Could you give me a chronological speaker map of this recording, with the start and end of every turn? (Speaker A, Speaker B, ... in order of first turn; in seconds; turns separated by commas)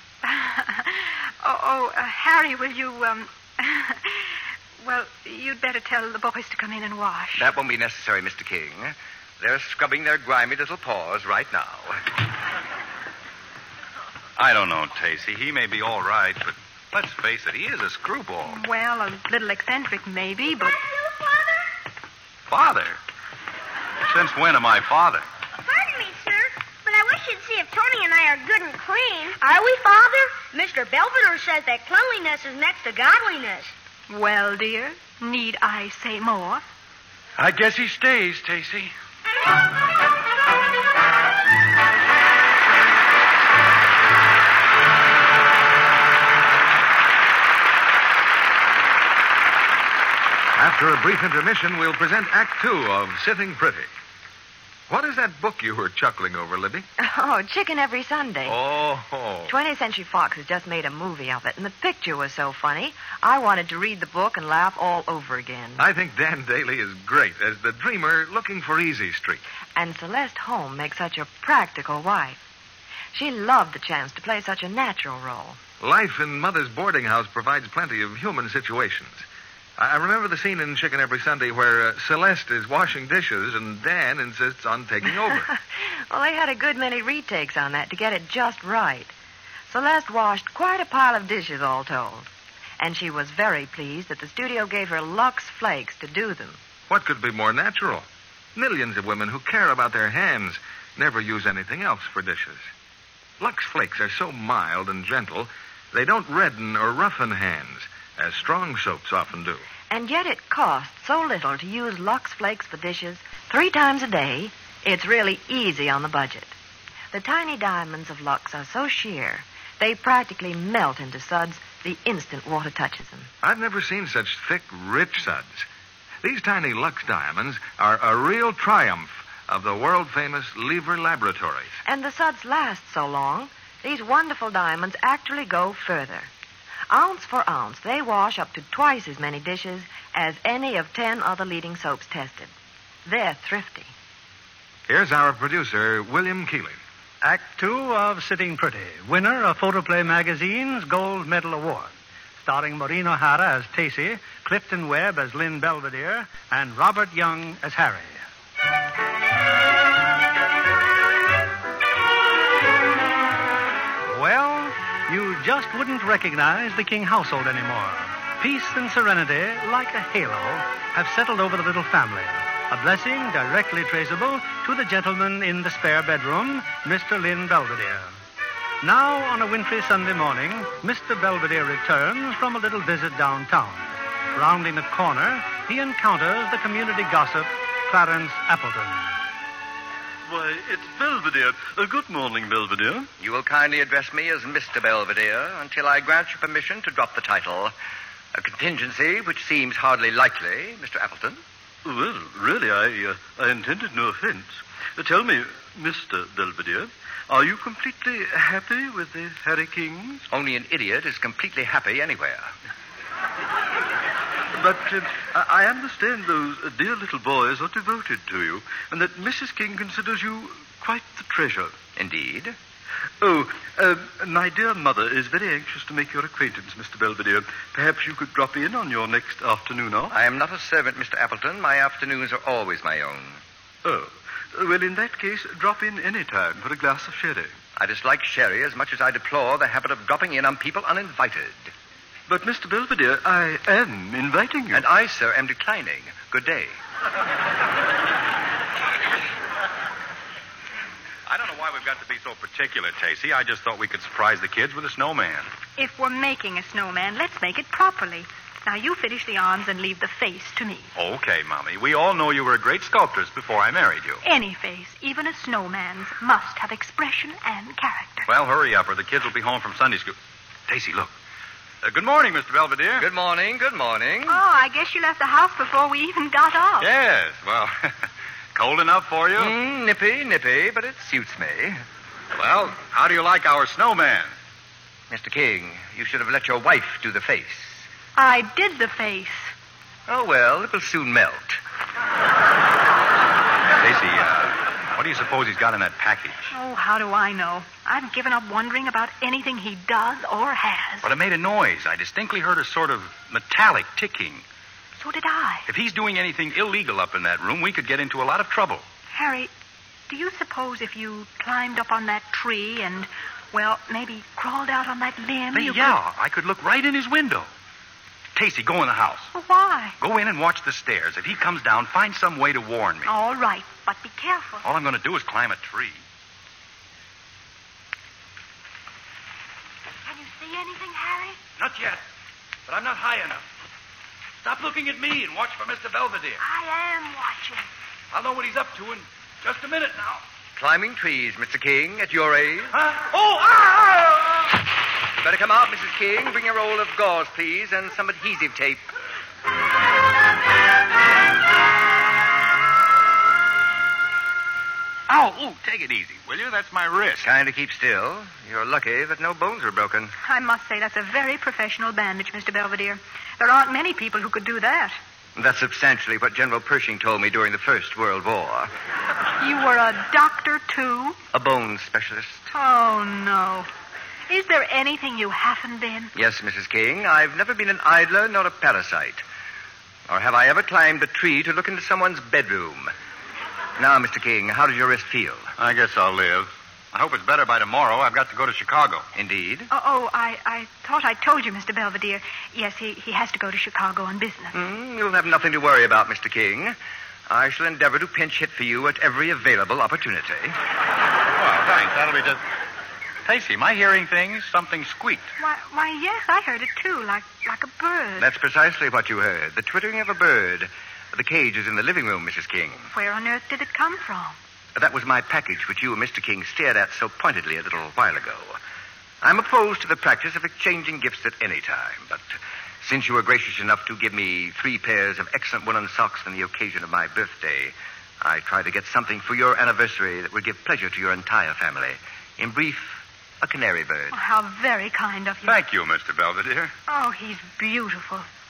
Speaker A: 0.2-7.5, Speaker B: 7.4-12.0, Speaker C: 14.4-18.6, Speaker A: 18.5-20.8, Speaker D: 20.5-21.7, Speaker C: 22.5-23.0, Speaker C: 24.1-25.2, Speaker D: 25.6-33.7, Speaker A: 34.1-36.6, Speaker C: 37.4-38.9, Speaker E: 50.6-53.9, Speaker E: 54.9-56.9, Speaker F: 57.0-58.6, Speaker E: 58.5-59.5, Speaker F: 59.5-65.9, Speaker E: 65.8-69.4, Speaker F: 69.8-72.4, Speaker F: 73.1-75.6, Speaker E: 75.8-79.2, Speaker E: 79.8-85.5, Speaker F: 86.1-89.1, Speaker F: 89.7-96.6, Speaker E: 96.9-102.7, Speaker E: 103.4-109.6, Speaker F: 109.9-116.5, Speaker F: 117.1-123.3, Speaker E: 123.4-125.7, Speaker E: 126.2-131.8, Speaker F: 131.8-136.3, Speaker F: 136.9-142.5, Speaker F: 143.1-143.9, Speaker E: 144.9-146.8, Speaker G: 147.2-158.2, Speaker G: 164.1-178.1, Speaker G: 178.8-189.1, Speaker H: 190.3-193.1, Speaker B: 193.2-197.7, Speaker B: 198.3-201.4, Speaker H: 201.8-210.2, Speaker B: 210.3-212.5, Speaker H: 214.5-221.7, Speaker B: 222.0-222.6, Speaker H: 223.2-230.1, Speaker B: 230.1-233.4, Speaker H: 233.8-237.5, Speaker B: 237.8-241.7, Speaker H: 242.3-244.8, Speaker B: 244.7-246.8, Speaker C: 251.3-255.5, Speaker A: 255.8-260.9, Speaker C: 260.9-264.2, Speaker A: 264.2-268.3, Speaker C: 268.3-270.1, Speaker C: 270.7-271.1, Speaker C: 271.8-273.1, Speaker B: 273.0-274.4, Speaker A: 274.3-276.9, Speaker C: 276.8-279.5, Speaker B: 279.4-281.8, Speaker C: 282.4-284.3, Speaker B: 285.1-287.9, Speaker A: 288.1-289.5, Speaker B: 290.1-291.6, Speaker C: 293.8-296.5, Speaker A: 296.5-301.1, Speaker C: 301.0-304.4, Speaker A: 305.0-305.6, Speaker C: 305.7-308.9, Speaker A: 309.1-309.5, Speaker A: 310.1-316.0, Speaker C: 315.5-317.5, Speaker C: 318.3-319.3, Speaker A: 319.3-320.0, Speaker C: 320.0-323.1, Speaker A: 323.1-324.6, Speaker C: 324.6-326.0, Speaker A: 330.1-331.4, Speaker C: 331.6-332.0, Speaker C: 332.6-333.4, Speaker C: 334.4-336.4, Speaker A: 336.4-337.7, Speaker C: 338.1-340.2, Speaker B: 340.6-342.7, Speaker C: 342.7-344.4, Speaker B: 345.2-348.8, Speaker C: 355.1-357.3, Speaker B: 357.2-360.1, Speaker A: 360.2-365.0, Speaker B: 365.4-368.7, Speaker A: 369.4-371.2, Speaker B: 371.3-372.5, Speaker A: 372.5-373.7, Speaker A: 374.3-376.1, Speaker B: 376.1-379.2, Speaker B: 380.1-382.9, Speaker B: 383.8-385.5, Speaker C: 385.6-389.1, Speaker B: 389.1-389.7, Speaker A: 389.7-394.6, Speaker B: 394.5-396.8, Speaker B: 397.3-400.6, Speaker C: 401.3-402.4, Speaker C: 403.3-405.3, Speaker A: 405.4-408.3, Speaker B: 408.2-412.9, Speaker A: 412.9-414.4, Speaker B: 414.8-418.6, Speaker B: 419.2-434.1, Speaker A: 434.1-435.6, Speaker C: 435.4-436.7, Speaker A: 436.9-438.3